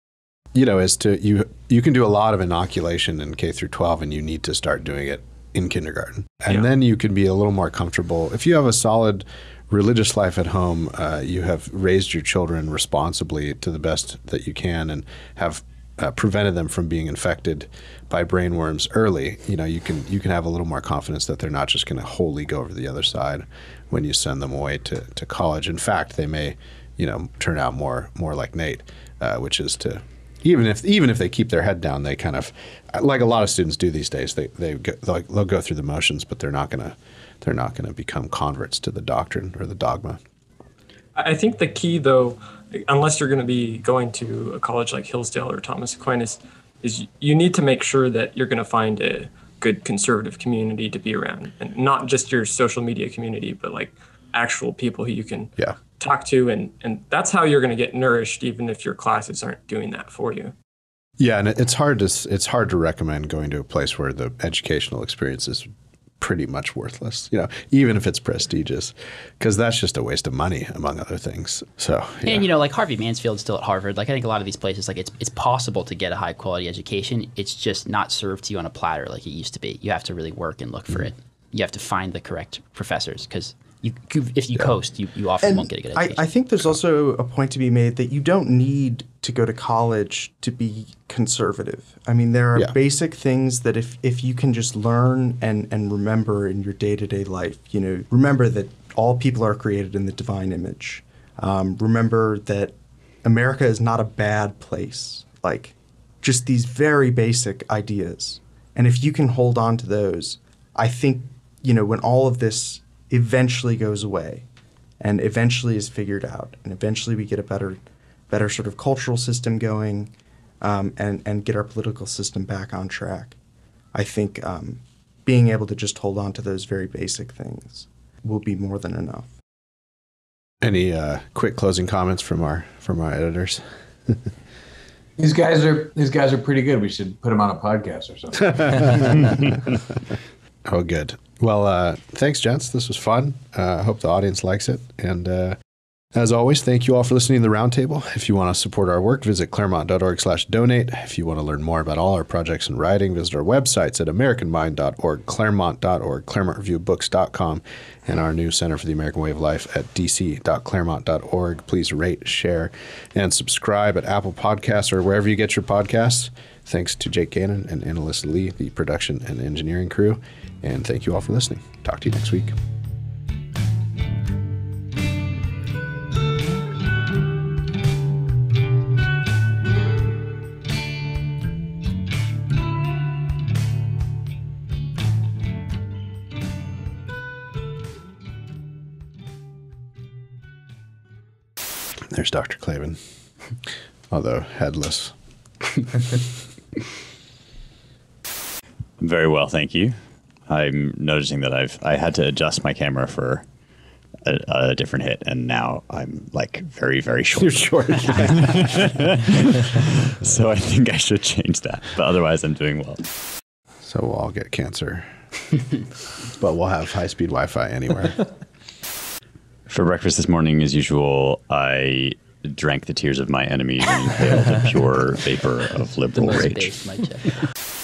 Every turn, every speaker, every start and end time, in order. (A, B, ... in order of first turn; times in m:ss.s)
0:00.5-0:40.2 A
0:41.2-1:00.5 B
1:01.2-1:05.7 A
1:06.2-1:12.5 A
1:12.2-1:26.2 C
1:25.4-1:54.4 D
1:55.0-1:57.8 D
1:58.3-2:03.4 D
2:03.9-2:09.3 D
2:10.6-2:14.2 A
2:15.2-2:19.4 E
2:18.7-2:19.3 A
2:20.7-2:25.6 A
2:26.1-2:52.6 A
3:12.1-3:13.0 A
3:14.1-3:15.1 A
3:19.0-3:20.0 F
3:20.5-3:23.4 F
3:24.3-3:33.1 F
3:27.4-3:29.0 A
3:33.8-3:35.1 A
3:36.4-3:38.3 A
3:39.7-3:46.7 F
3:46.1-3:47.4 C